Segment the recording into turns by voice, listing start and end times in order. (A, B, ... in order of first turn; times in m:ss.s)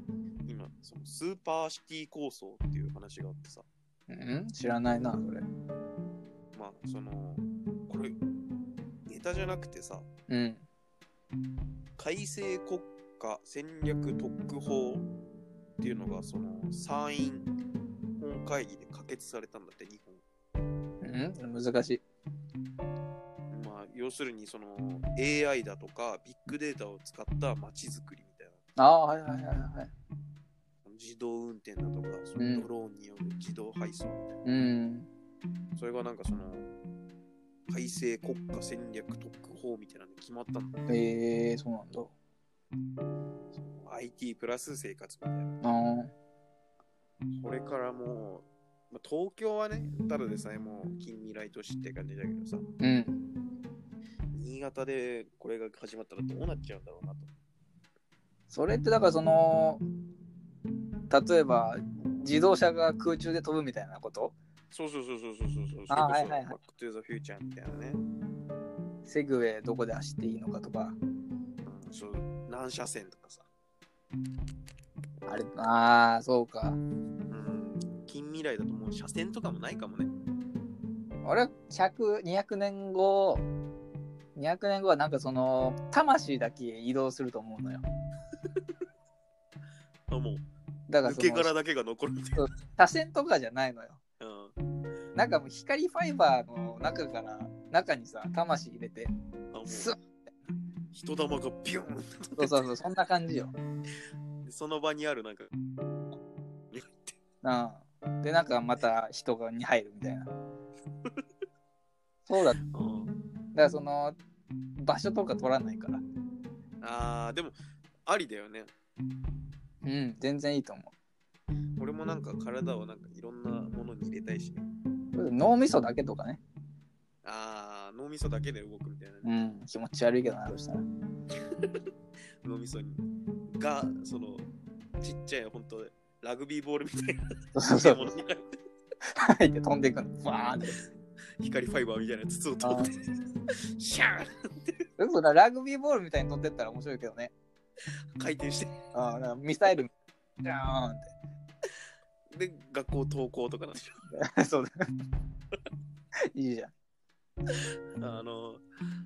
0:00.4-0:03.6 A
0:04.1-0:05.5 B
0:06.5-0:08.2 A
0:09.1-0:10.1 A
0:10.3-0:10.6 B
0:12.0-0:15.1 A
0:15.8-0:17.5 A
0:18.2-0:20.2 A
0:21.0-0:22.0 B
0:23.5-0:28.6 A
0:28.8-0:29.9 B
0:30.8-0:34.4 A
0:32.4-0:32.7 B
0:34.4-0:35.1 B
0:35.8-0:36.7 A
0:37.7-0:40.8 A
0:40.9-0:42.1 B
0:43.5-0:45.6 A
0:45.6-0:46.1 B
0:47.4-0:52.6 A
0:52.8-0:53.2 B
0:54.3-0:57.3 A
0:58.5-0:59.8 B
1:01.1-1:04.3 B
1:04.7-1:08.0 A
1:05.9-1:06.6 B
1:09.0-1:11.0 B
1:11.6-1:13.5 A
1:15.2-1:16.8 B
1:17.3-1:20.1 A
1:21.2-1:23.5 B
1:24.4-1:27.8 B
1:30.1-1:30.4 A
1:30.9-1:31.5 B
1:31.0-1:32.4 A
1:32.4-1:34.0 B
1:34.2-1:34.5 A
1:35.1-1:39.1 B
1:39.5-1:39.9 A
1:39.7-1:40.0 B
1:40.9-1:42.6 A
1:42.4-1:43.5 B
1:44.4-1:45.5 A
1:46.7-1:47.1 A
1:47.4-1:50.3 B
1:52.2-1:52.6 B
1:52.7-1:53.1 A
1:53.6-1:54.2 B
1:54.8-1:56.0 B
1:56.8-1:58.7 A
1:59.8-2:00.9 B
2:01.8-2:04.7 A
2:05.1-2:06.4 B
2:07.2-2:09.3 A
2:09.2-2:10.8 B
2:12.4-2:13.0 A
2:13.6-2:14.5 A
2:15.0-2:17.2 A
2:17.5-2:18.1 B
2:17.8-2:18.5 A
2:19.2-2:20.8 B
2:21.4-2:23.0 A
2:22.6-2:22.9 B
2:23.8-2:24.3 A
2:25.0-2:27.3 B
2:28.2-2:28.7 A
2:28.9-2:29.9 B
2:30.4-2:31.1 B
2:32.3-2:34.0 A
2:34.1-2:34.7 B
2:36.3-2:36.7 B
2:38.0-2:38.6 A